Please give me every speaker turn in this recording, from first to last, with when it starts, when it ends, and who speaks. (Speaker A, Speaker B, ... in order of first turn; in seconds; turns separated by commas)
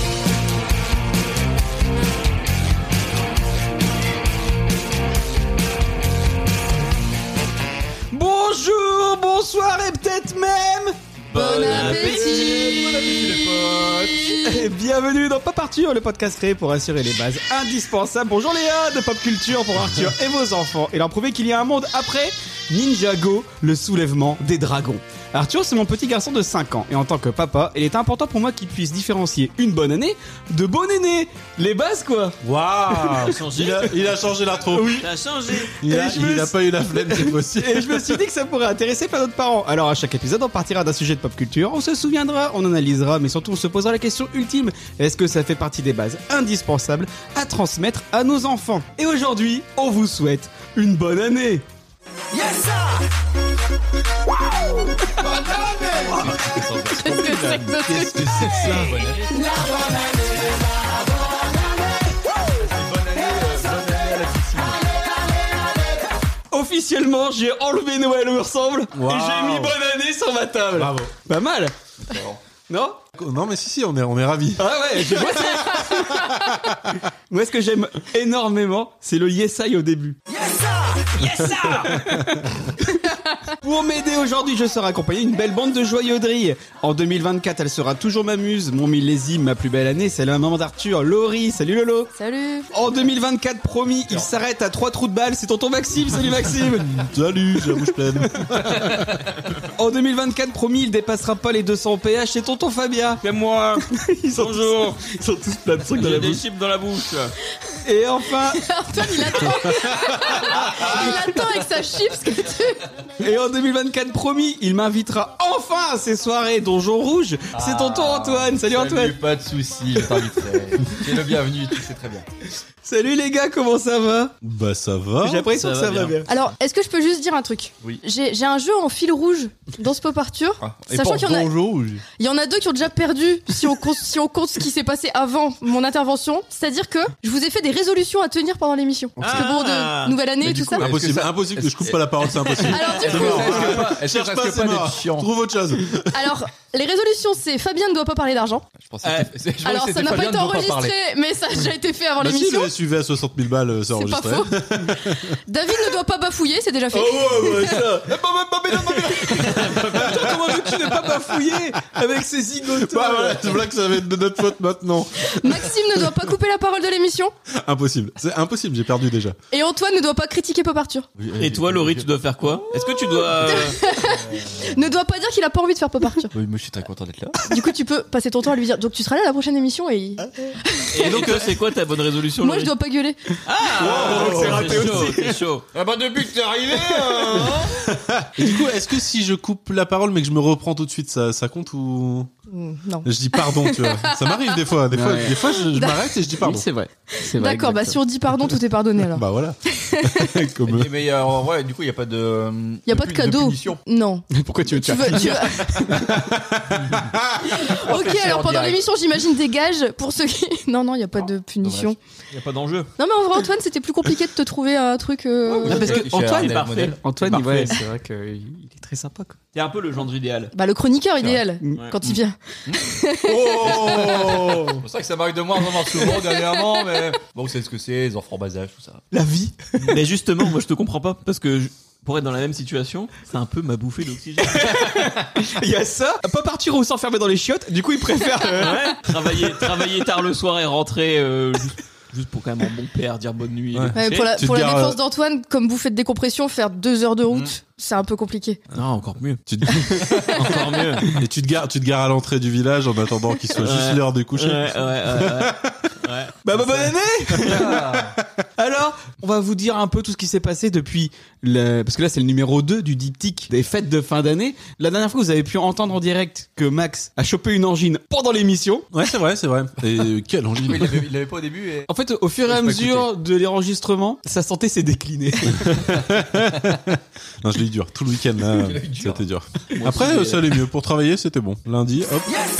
Speaker A: 8.1-11.0, Speaker B: 11.3-12.7, Speaker C: 11.3-14.7, Speaker A: 11.6-32.4, Speaker D: 12.6-14.0, Speaker E: 32.4-35.0, Speaker A: 33.0-33.3, Speaker B: 33.2-33.9, Speaker A: 34.7-51.6, Speaker B: 35.0-36.0, Speaker E: 35.8-38.2, Speaker D: 55.6-59.4, Speaker C: 56.9-58.1, Speaker A: 57.0-59.0, Speaker D: 62.6-64.8, Speaker A: 66.5-71.7, Speaker E: 68.9-69.8, Speaker E: 70.7-71.1, Speaker D: 72.0-72.4, Speaker A: 72.7-73.0, Speaker E: 73.2-75.5, Speaker A: 74.6-76.7, Speaker A: 77.3-80.2, Speaker B: 81.2-82.0, Speaker E: 81.8-82.4, Speaker A: 81.9-82.3, Speaker A: 82.8-92.1, Speaker C: 92.2-92.7, Speaker A: 92.7-97.0, Speaker E: 97.0-99.2, Speaker A: 98.6-98.9, Speaker A: 99.8-103.2, Speaker B: 103.2-105.0, Speaker A: 103.9-106.4, Speaker B: 106.0-107.3, Speaker A: 107.8-108.7, Speaker C: 108.5-112.8, Speaker B: 110.5-111.1, Speaker A: 113.2-119.2, Speaker D: 117.5-122.2, Speaker A: 122.8-124.3, Speaker E: 124.4-125.5, Speaker A: 125.2-126.3, Speaker B: 125.5-126.2, Speaker C: 126.3-131.5, Speaker D: 130.6-131.8, Speaker E: 131.6-131.9, Speaker C: 132.2-140.8, Speaker E: 139.2-139.5, Speaker B: 139.2-140.2, Speaker D: 140.4-142.0, Speaker E: 140.8-146.1, Speaker B: 142.4-142.9, Speaker C: 142.7-143.8, Speaker D: 143.0-145.3, Speaker C: 146.1-148.6, Speaker D: 148.8-150.9, Speaker B: 149.0-149.3, Speaker C: 149.6-152.7, Speaker E: 152.2-155.3, Speaker C: 153.9-154.6, Speaker C: 155.5-157.7, Speaker A: 156.9-163.6, Speaker D: 157.3-159.6, Speaker E: 159.6-160.2, Speaker E: 162.7-165.5, Speaker C: 165.2-167.3, Speaker E: 167.5-169.4, Speaker C: 169.5-171.1, Speaker D: 171.2-172.1, Speaker B: 171.4-173.8, Speaker D: 172.6-174.8, Speaker C: 173.4-176.3, Speaker D: 176.3-177.4, Speaker C: 177.5-181.3, Speaker B: 180.9-182.7, Speaker E: 181.0-181.6, Speaker C: 182.4-183.2, Speaker B: 183.4-185.6, Speaker D: 183.8-185.1, Speaker A: 183.8-185.4, Speaker D: 185.7-187.7, Speaker A: 186.7-187.7, Speaker E: 188.3-192.3, Speaker C: 192.5-194.5, Speaker E: 193.0-196.7, Speaker A: 194.9-195.4, Speaker C: 195.7-196.0, Speaker A: 196.4-198.0, Speaker C: 197.3-200.3, Speaker E: 199.1-200.9, Speaker D: 200.7-203.8, Speaker C: 202.9-206.1, Speaker A: 204.3-206.2, Speaker E: 206.2-207.5, Speaker C: 207.5-212.0, Speaker D: 207.7-208.9, Speaker D: 211.6-211.9, Speaker B: 212.3-212.9, Speaker C: 213.0-216.0, Speaker D: 215.5-217.0, Speaker A: 215.6-219.4, Speaker B: 215.9-217.7, Speaker B: 219.5-220.5, Speaker C: 220.5-223.7, Speaker A: 223.3-224.8, Speaker D: 223.6-229.0, Speaker E: 223.7-224.8, Speaker A: 229.1-230.0, Speaker B: 229.8-234.8, Speaker A: 234.4-239.0, Speaker B: 238.5-244.2, Speaker E: 243.7-245.0, Speaker C: 243.9-248.6, Speaker B: 248.7-249.4, Speaker E: 249.5-250.4, Speaker B: 250.0-251.1, Speaker E: 251.0-255.9, Speaker B: 253.6-256.4, Speaker A: 256.4-258.0, Speaker D: 257.5-258.1, Speaker A: 258.6-268.9, Speaker E: 268.9-271.1, Speaker D: 270.6-271.9, Speaker A: 271.9-275.9, Speaker D: 272.4-273.1, Speaker E: 275.6-282.4, Speaker D: 278.6-279.2, Speaker B: 279.7-280.4